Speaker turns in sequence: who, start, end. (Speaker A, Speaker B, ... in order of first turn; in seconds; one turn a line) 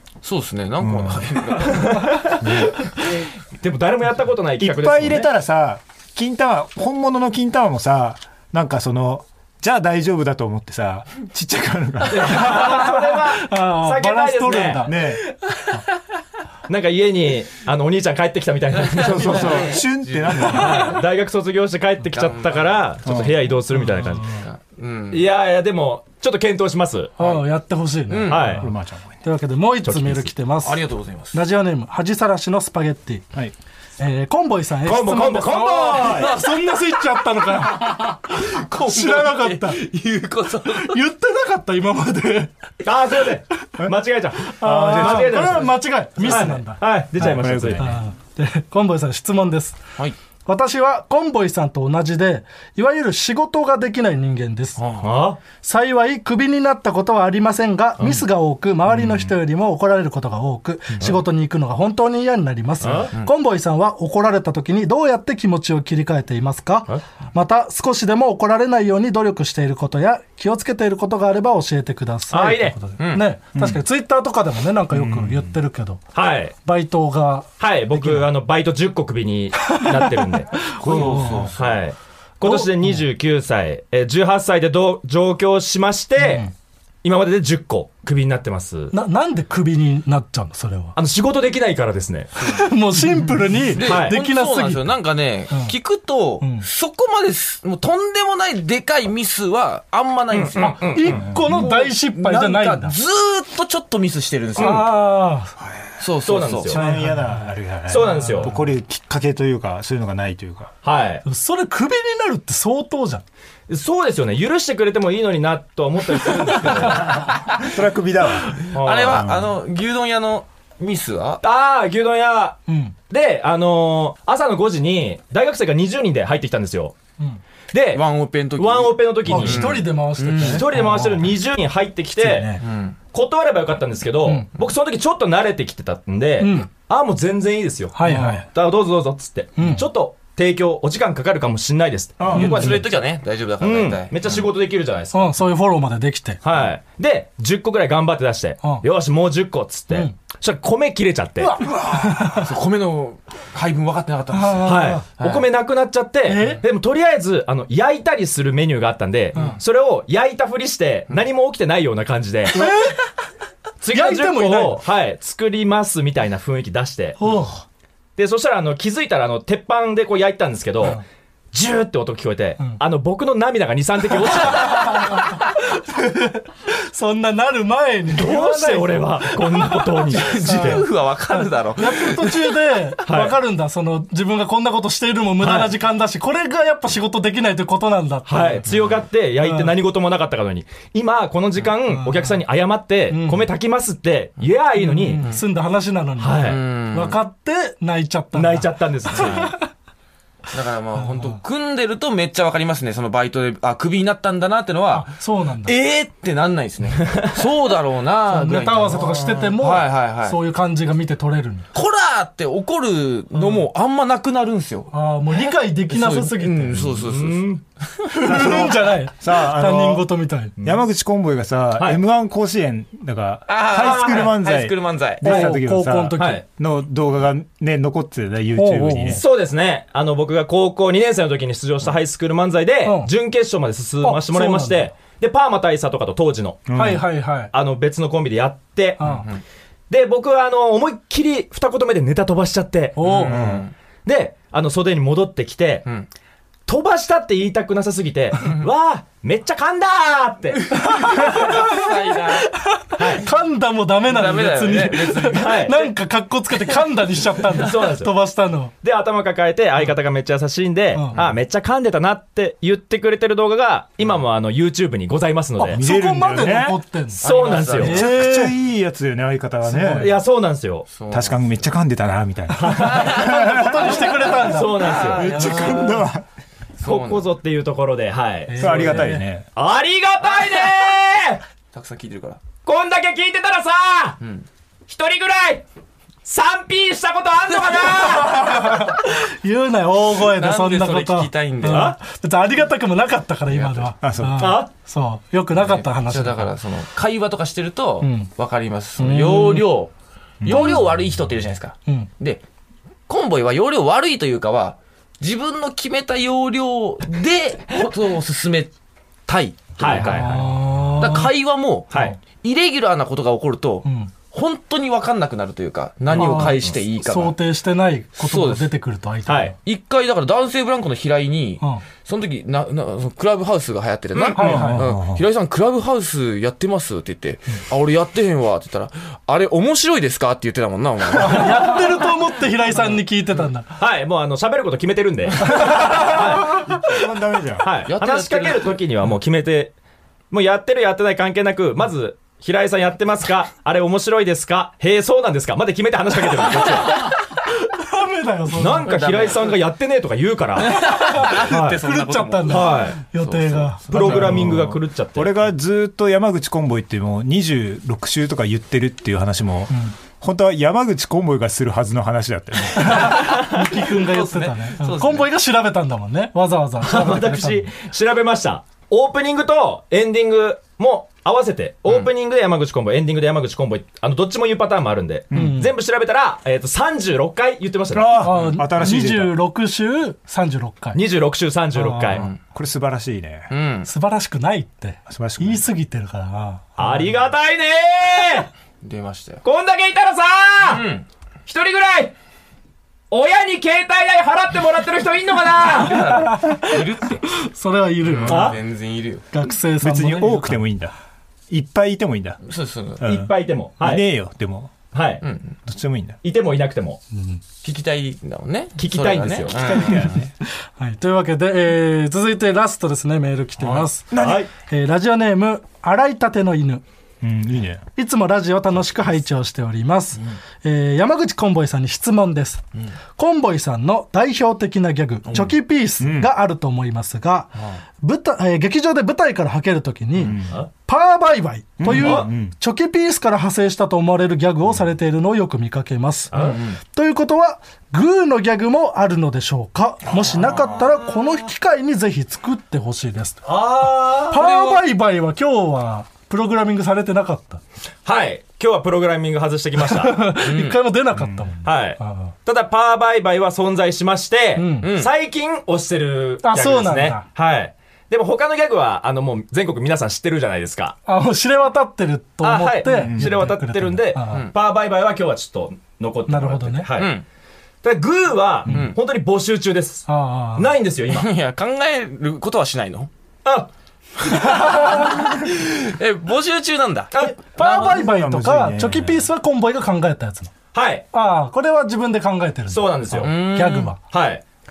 Speaker A: 0.2-2.0
Speaker B: 0.8-1.7
Speaker C: 1.6-5.3
Speaker B: 2.4-2.8
Speaker B: 4.6-12.7
Speaker C: 12.1-14.9
Speaker D: 12.3-15.0
Speaker B: 14.8-15.2
Speaker C: 16.7-19.8
Speaker A: 18.9-20.9
Speaker B: 19.0-21.0
Speaker C: 20.4-24.4
Speaker A: 22.1-23.2
Speaker B: 23.1-23.4
Speaker D: 23.8-24.1
Speaker A: 24.3-25.3
Speaker C: 25.1-27.1
Speaker D: 27.2-28.7
Speaker A: 28.1-28.6
Speaker C: 28.3-28.7
Speaker B: 28.6-29.2
Speaker D: 29.2-33.2
Speaker C: 29.9-30.3
Speaker A: 30.6-31.4
Speaker D: 34.0-39.8
Speaker C: 34.9-36.4
Speaker A: 37.8-41.0
Speaker D: 40.7-42.5
Speaker C: 42.8-47.9
Speaker D: 44.5-49.8
Speaker B: 44.6-45.7
Speaker B: 47.2-48.0
Speaker D: 50.5-54.8
Speaker A: 54.8-55.1
Speaker C: 55.0-55.4
Speaker D: 55.6-76.0
Speaker C: 62.8-63.1
Speaker C: 72.3-72.8
Speaker A: 73.0-73.3
Speaker B: 73.5-73.8
Speaker B: 74.9-75.6
Speaker C: 76.1-76.5
Speaker D: 76.7-78.2
Speaker C: 77.6-80.5
Speaker D: 79.8-80.1
Speaker B: 80.8-81.6
Speaker A: 80.8-81.8
Speaker D: 80.8-81.5
Speaker C: 81.6-86.5
Speaker D: 82.4-83.0
Speaker D: 86.2-86.5
Speaker C: 87.0-88.9
Speaker D: 88.9-91.0
Speaker C: 91.0-92.3
Speaker D: 92.4-94.9
Speaker A: 93.7-104.9
Speaker C: 93.8-94.2
Speaker D: 96.4-96.7
Speaker C: 100.3-101.2
Speaker D: 100.6-103.0
Speaker B: 101.1-101.6
Speaker C: 104.6-104.9
Speaker D: 104.6-105.5
Speaker B: 105.6-105.9
Speaker A: 106.0-106.8
Speaker C: 106.2-106.8
Speaker B: 106.7-110.7
Speaker D: 106.7-108.6
Speaker C: 107.9-108.5
Speaker C: 110.8-111.2
Speaker D: 111.2-113.2
Speaker C: 113.7-117.2
Speaker A: 116.4-117.6
Speaker B: 117.0-119.5
Speaker A: 118.6-121.4
Speaker C: 118.7-119.3
Speaker C: 121.4-127.0
Speaker D: 122.7-123.0
Speaker C: 127.7-128.0
Speaker A: 127.9-130.6
Speaker C: 128.6-129.8
Speaker D: 129.3-131.3
Speaker C: 130.4-132.6
Speaker D: 132.2-132.6
Speaker A: 132.6-133.0
Speaker C: 133.1-142.9
Speaker D: 136.4-136.7
Speaker D: 137.9-138.5
Speaker D: 139.6-139.9
Speaker B: 142.2-142.7
Speaker D: 142.3-142.8
Speaker A: 142.3-144.4
Speaker C: 143.6-145.3
Speaker D: 145.1-146.4
Speaker C: 146.4-151.6
Speaker D: 151.4-152.5
Speaker A: 152.1-155.5
Speaker D: 154.3-155.0
Speaker C: 154.6-162.7
Speaker D: 156.3-156.6
Speaker D: 162.5-163.1
Speaker C: 163.8-167.2
Speaker D: 163.9-164.8
Speaker D: 167.2-167.6
Speaker C: 168.2-175.2
Speaker D: 174.5-188.7
Speaker C: 178.1-180.8
Speaker A: 180.1-182.6
Speaker C: 183.1-183.4
Speaker C: 185.4-185.7
Speaker C: 188.3-195.2
Speaker D: 189.4-189.7
Speaker D: 191.9-192.4
Speaker D: 193.1-193.4
Speaker D: 194.8-199.6
Speaker A: 195.1-195.4
Speaker C: 196.2-196.6
Speaker A: 196.4-197.2
Speaker C: 198.3-199.5
Speaker A: 199.1-199.5
Speaker A: 200.5-205.1
Speaker D: 201.0-201.4
Speaker D: 204.9-205.8
Speaker A: 205.6-210.4
Speaker D: 208.3-211.7
Speaker A: 211.7-214.9
Speaker D: 213.3-213.7
Speaker D: 214.9-216.9
Speaker A: 215.9-218.1
Speaker C: 217.1-217.6
Speaker D: 218.1-220.5
Speaker B: 218.2-220.1
Speaker B: 220.6-229.2
Speaker A: 223.5-225.5
Speaker C: 223.8-224.3
Speaker D: 225.2-226.4
Speaker C: 226.2-226.4
Speaker D: 228.6-229.2
Speaker C: 229.1-236.7
Speaker D: 232.8-233.1
Speaker D: 234.0-234.9
Speaker B: 236.7-237.0
Speaker D: 236.8-237.5
Speaker C: 237.5-239.0
Speaker D: 239.0-239.3
Speaker A: 239.0-239.4
Speaker C: 239.9-243.0
Speaker D: 243.0-243.4
Speaker A: 243.0-243.7
Speaker B: 243.3-243.7
Speaker C: 244.1-245.9
Speaker C: 246.7-250.8
Speaker D: 250.7-258.7
Speaker A: 250.9-252.5
Speaker C: 253.0-253.3
Speaker A: 254.1-255.7
Speaker C: 255.3-255.9
Speaker C: 257.6-258.1
Speaker C: 258.8-265.8
Speaker D: 265.6-268.6
Speaker B: 265.7-266.8
Speaker A: 267.2-268.0
Speaker C: 267.2-268.0
Speaker B: 267.8-270.2
Speaker D: 269.6-270.2
Speaker C: 269.9-270.9
Speaker A: 270.9-271.7
Speaker B: 271.1-274.0
Speaker C: 272.6-273.4
Speaker D: 272.8-276.0
Speaker C: 274.0-275.3
Speaker A: 274.0-276.1
Speaker B: 275.2-276.2
Speaker A: 276.8-277.3
Speaker C: 276.8-281.4
Speaker D: 278.5-279.3
Speaker B: 278.6-279.5
Speaker A: 280.3-280.7
Speaker A: 281.7-282.4
Speaker C: 282.6-284.2
Speaker A: 284.2-284.5
Speaker C: 284.9-285.6
Speaker C: 286.2-288.9
Speaker D: 288.2-296.5
Speaker A: 290.2-292.0
Speaker C: 291.6-292.0
Speaker A: 293.5-293.9
Speaker B: 294.0-294.6
Speaker C: 294.4-294.7
Speaker A: 295.6-302.4
Speaker D: 298.0-298.3
Speaker D: 299.0-299.7
Speaker B: 300.4-300.8
Speaker D: 300.5-300.8
Speaker A: 303.1-308.7
Speaker A: 309.3-310.4
Speaker C: 309.8-310.5
Speaker D: 310.0-311.3
Speaker A: 311.0-317.4
Speaker C: 311.9-312.2
Speaker D: 313.8-314.1
Speaker C: 316.1-316.7
Speaker D: 316.1-319.6
Speaker A: 318.2-318.7
Speaker C: 319.3-319.6
Speaker A: 319.6-331.9
Speaker C: 324.1-324.4
Speaker D: 324.4-324.9
Speaker B: 324.4-325.2
Speaker D: 331.2-333.7
Speaker C: 333.8-336.6
Speaker D: 335.6-336.2
Speaker B: 335.6-337.7
Speaker C: 337.6-339.8
Speaker A: 337.9-338.8
Speaker C: 340.3-347.1
Speaker D: 346.9-349.0
Speaker C: 348.5-351.8
Speaker A: 348.8-349.6
Speaker A: 350.6-354.5
Speaker D: 350.7-354.3
Speaker C: 352.5-353.0
Speaker C: 353.9-355.3
Speaker B: 353.9-363.1
Speaker D: 362.8-367.7
Speaker C: 363.1-363.7
Speaker A: 363.9-365.3
Speaker C: 366.8-378.3
Speaker B: 375.3-375.6
Speaker D: 375.3-375.7
Speaker B: 377.9-379.3
Speaker D: 378.2-381.0
Speaker A: 378.4-378.6
Speaker C: 380.9-382.3
Speaker D: 381.7-382.3
Speaker B: 382.4-383.5
Speaker A: 383.5-383.9
Speaker D: 383.9-387.1
Speaker B: 385.1-385.6
Speaker C: 386.8-388.5
Speaker A: 388.8-389.4
Speaker C: 389.4-390.9
Speaker A: 390.6-391.1
Speaker C: 391.5-392.1
Speaker C: 393.1-396.3
Speaker A: 395.5-397.3
Speaker D: 396.1-398.6
Speaker A: 398.0-399.2
Speaker C: 398.3-398.6
Speaker D: 399.3-400.7
Speaker B: 399.8-400.9
Speaker B: 401.5-402.4
Speaker A: 402.4-403.0
Speaker B: 403.0-404.8
Speaker C: 403.0-404.1
Speaker C: 404.9-405.2
Speaker A: 405.2-405.6
Speaker B: 405.7-406.2
Speaker C: 406.2-407.0
Speaker D: 407.1-407.4
Speaker A: 407.6-410.2
Speaker C: 408.8-410.1
Speaker B: 409.6-410.3
Speaker D: 410.8-416.8
Speaker B: 414.1-414.5
Speaker C: 414.1-414.5
Speaker B: 417.2-417.8
Speaker D: 418.0-422.6
Speaker D: 423.2-443.4
Speaker B: 425.3-426.3
Speaker B: 430.2-430.6
Speaker B: 431.8-432.5
Speaker C: 431.9-432.3
Speaker C: 436.3-436.6
Speaker A: 436.4-436.8
Speaker C: 443.4-444.4
Speaker A: 444.3-444.8
Speaker D: 444.3-447.6
Speaker C: 448.1-450.2
Speaker D: 449.9-452.3
Speaker A: 450.4-450.8
Speaker B: 451.1-451.5
Speaker C: 451.6-461.0
Speaker D: 454.6-454.9
Speaker A: 454.8-455.1
Speaker D: 456.4-457.3
Speaker D: 461.1-464.5
Speaker C: 462.4-467.1
Speaker B: 462.9-463.6
Speaker D: 466.3-466.9
Speaker A: 466.9-467.2
Speaker C: 467.8-471.3
Speaker D: 468.7-468.9
Speaker A: 468.7-469.0
Speaker D: 470.1-470.7
Speaker A: 471.1-473.1
Speaker A: 474.4-478.0
Speaker D: 474.6-475.1
Speaker D: 477.2-480.5
Speaker B: 477.6-479.3
Speaker C: 480.7-481.1
Speaker D: 481.1-484.0
Speaker C: 482.7-483.3
Speaker A: 483.1-483.9
Speaker C: 484.1-484.4